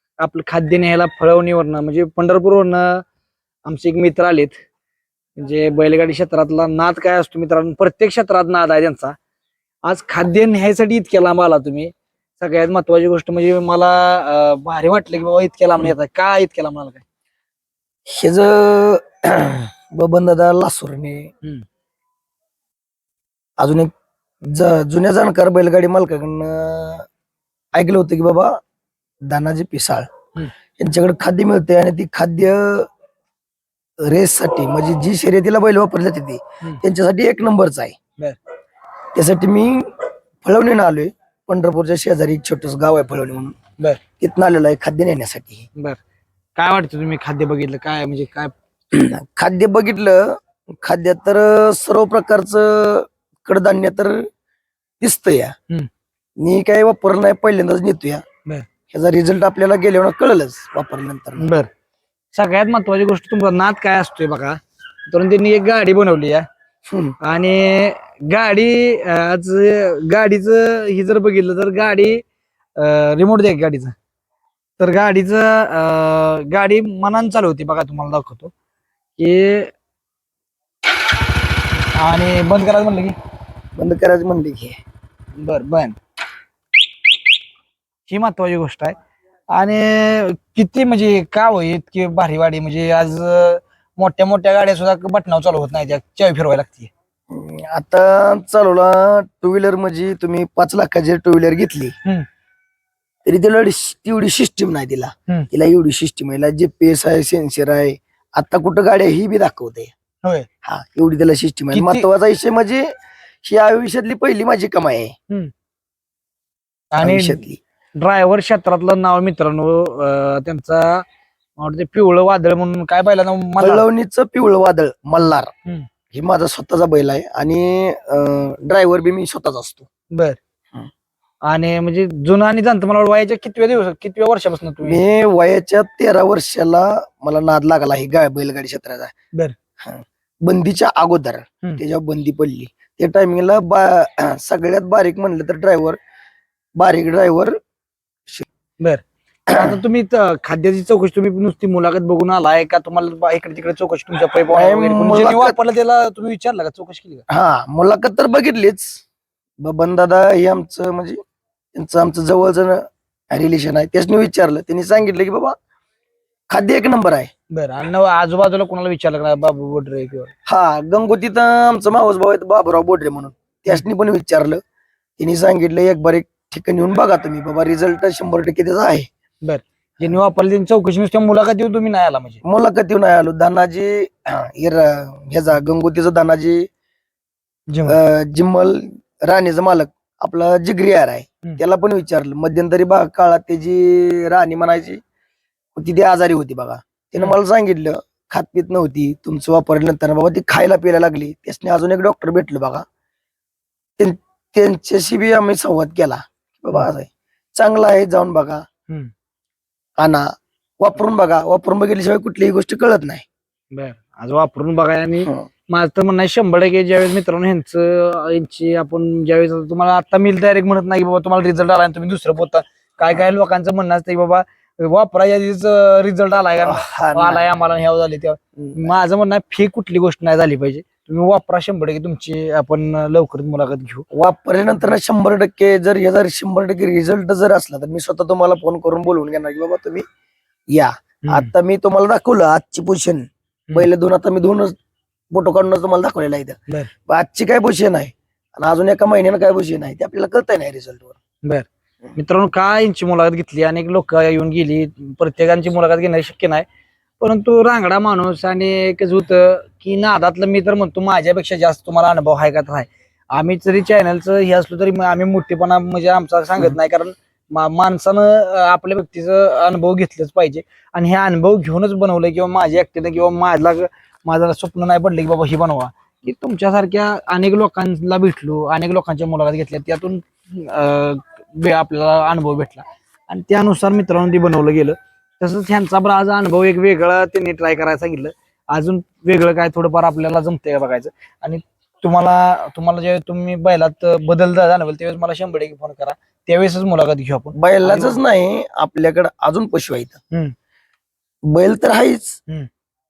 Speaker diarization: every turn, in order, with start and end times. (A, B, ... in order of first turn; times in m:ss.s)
0:00.2-0:03.0 A
0:03.6-0:04.6 A
0:05.4-0:09.2 A
0:09.9-0:17.0 A
0:18.1-0:21.3 B
0:23.6-0:23.9 B
0:24.4-0:27.1 B
0:27.7-0:28.6 B
0:29.3-0:30.1 B
0:30.8-0:32.9 B
0:34.0-0:38.0 B
0:39.1-0:39.9 B
0:40.4-0:43.6 B
0:44.2-0:45.7 B
0:46.6-0:48.5 A
0:48.9-0:54.2 B
0:55.0-0:55.5 B
0:56.4-0:58.2 B
0:58.9-1:01.5 B
1:01.4-1:01.7 A
1:02.3-1:06.5 A
1:06.9-1:07.2 B
1:07.2-1:12.2 A
1:12.8-1:13.9 A
1:14.8-1:18.5 A
1:19.2-1:19.7 A
1:21.9-1:23.2 A
1:23.8-1:24.8 B
1:25.4-1:26.0 A
1:28.1-1:29.0 A
1:29.5-1:36.9 A
1:37.3-1:42.0 B
1:43.2-1:49.9 B
1:50.6-1:52.9 B
1:51.7-1:52.0 A
1:53.4-1:55.1 B
1:56.9-1:57.4 A
1:57.0-1:57.6 B
1:58.0-2:01.0 A
2:01.6-2:03.8 A
2:03.6-2:05.5 B
2:06.1-2:09.9 B
2:10.1-2:10.4 A
2:11.5-2:15.0 A
2:14.8-2:19.1 B
2:19.8-2:26.0 B
2:26.8-2:27.6 B
2:28.8-2:37.2 A
2:29.5-2:29.8 B
2:34.5-2:35.6 B
2:37.3-2:39.0 B
2:39.6-2:41.2 B
2:41.7-2:45.6 B
2:46.5-2:47.3 B
2:47.5-2:50.3 A
2:50.5-2:54.6 B
2:55.2-2:59.1 B
2:59.4-3:02.4 A
3:02.4-3:06.7 B
3:07.7-3:08.0 A
3:07.9-3:15.0 B
3:15.8-3:22.8 B
3:24.0-3:28.6 B
3:30.0-3:33.3 B
3:33.7-3:54.0 A
3:46.6-3:47.5 B
3:48.6-3:49.0 B
3:54.1-4:00.0 B
4:00.7-4:04.8 B
4:05.3-4:11.2 B
4:11.4-4:16.7 A
4:17.2-4:58.2 A
4:57.6-5:00.2 B
5:01.5-5:02.4 B